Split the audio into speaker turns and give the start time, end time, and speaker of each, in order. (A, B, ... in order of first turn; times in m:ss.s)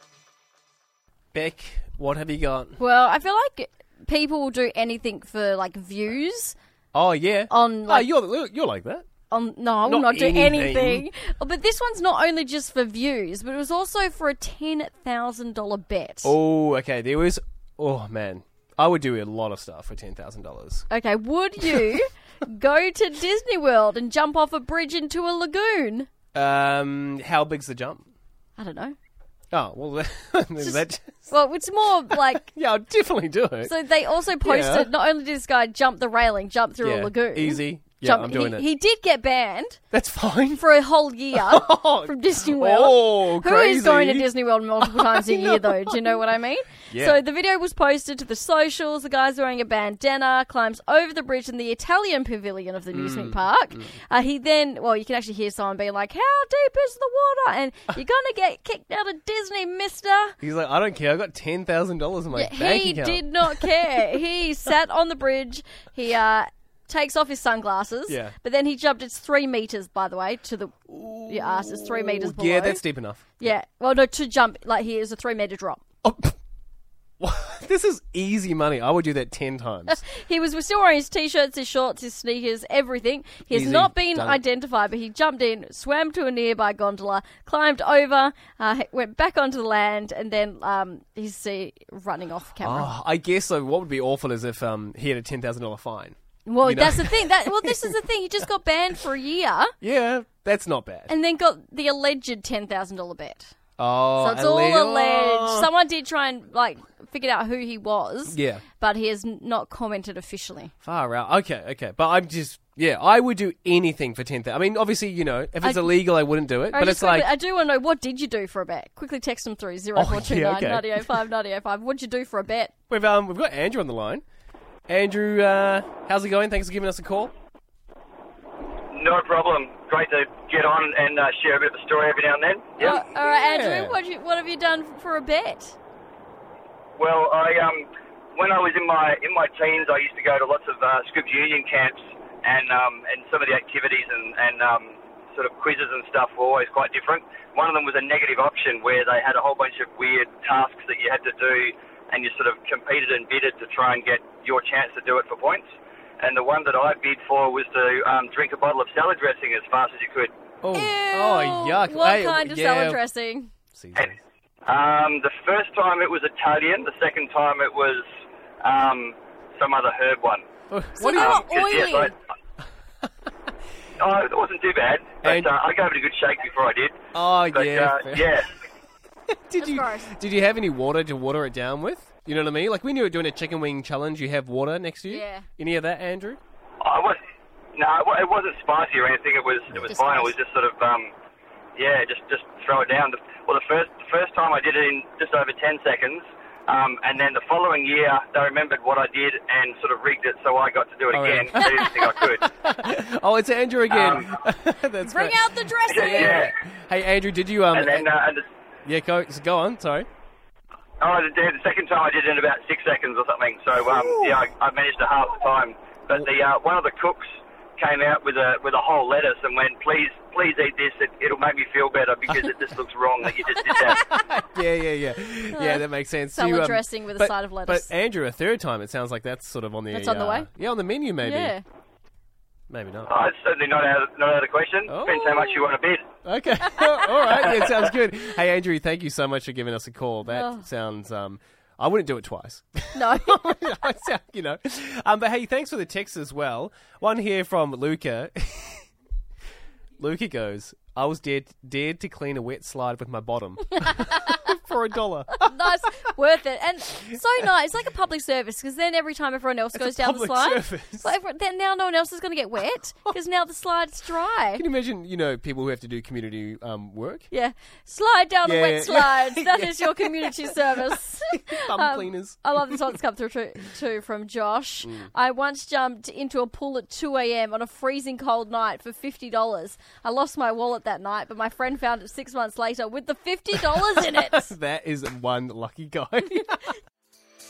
0:01.3-0:02.8 A
0:02.8-0:06.5 B
0:06.9-0:09.0 A
0:07.5-0:08.1 B
0:09.3-0:16.3 B
0:09.8-0:11.1 A
0:16.2-0:20.9 A
0:20.9-0:26.1 B
0:26.3-0:28.1 A
0:28.6-0:29.0 B
0:29.5-0:31.3 A
0:30.6-0:32.5 B
0:32.1-0:33.7 A
0:33.6-0:39.8 B
0:34.4-0:34.9 A
0:36.8-0:38.7 A
0:39.9-0:40.6 A
0:40.5-1:00.3 B
0:41.3-0:44.3 A
0:44.8-0:46.2 A
0:46.9-0:47.2 A
0:52.9-0:53.9 A
1:00.4-1:04.0 A
1:02.3-1:12.8 B
1:08.1-1:08.3 A
1:10.9-1:13.5 A
1:13.4-1:15.8 B
1:16.0-1:16.3 A
1:17.2-1:20.0 A
1:20.0-1:32.9 B
1:23.5-1:24.4 A
1:32.6-1:37.8 A
1:36.4-1:39.7 B
1:39.8-1:41.1 A
1:41.1-1:43.5 B
1:43.8-1:45.7 A
1:44.2-1:50.7 B
1:48.3-1:48.6 A
1:50.8-1:57.3 A
1:55.6-1:56.0 B
1:56.7-2:02.7 B
2:00.0-2:01.2 A
2:02.9-2:04.2 A
2:04.9-2:07.3 A
2:08.9-2:13.0 C
2:12.8-2:15.8 B
2:12.8-2:14.0 A
2:17.0-2:35.7 C
2:36.2-2:40.3 C
2:40.6-2:43.0 A
2:40.7-2:43.5 B
2:43.7-2:44.2 A
2:44.7-2:48.1 C
2:48.6-2:50.4 C
2:50.7-2:51.4 A
2:51.0-2:52.1 B
2:51.1-2:52.1 C
2:54.0-2:57.0 C
2:55.2-2:55.5 A
2:57.1-2:58.3 A
2:57.5-2:58.5 C
2:59.5-3:06.4 A
2:59.6-3:00.1 B
3:05.1-3:05.5 B
3:06.8-3:07.2 C
3:07.8-3:11.1 C
3:09.7-3:10.3 B
3:11.8-3:22.4 C
3:21.1-3:28.1 A
3:23.9-3:24.2 C
3:25.0-3:26.5 B
3:25.9-3:26.5 C
3:27.7-3:28.4 C
3:28.8-3:30.1 A
3:31.0-3:44.1 C
3:33.8-3:34.4 A
3:43.8-3:51.5 A
3:45.5-3:47.9 B
3:49.9-3:50.5 B
3:51.2-3:51.6 B
3:52.7-3:53.1 A
3:53.1-3:56.0 C
3:54.9-3:55.6 A
3:56.2-4:08.8 A
4:00.3-4:00.6 B
4:02.9-4:03.5 B
4:10.0-4:15.5 A
4:15.4-4:24.6 B
4:19.7-4:21.1 A
4:24.5-4:27.3 A
4:27.3-4:44.5 B
4:28.4-4:32.9 A
4:34.8-4:35.1 A
4:43.8-4:46.7 A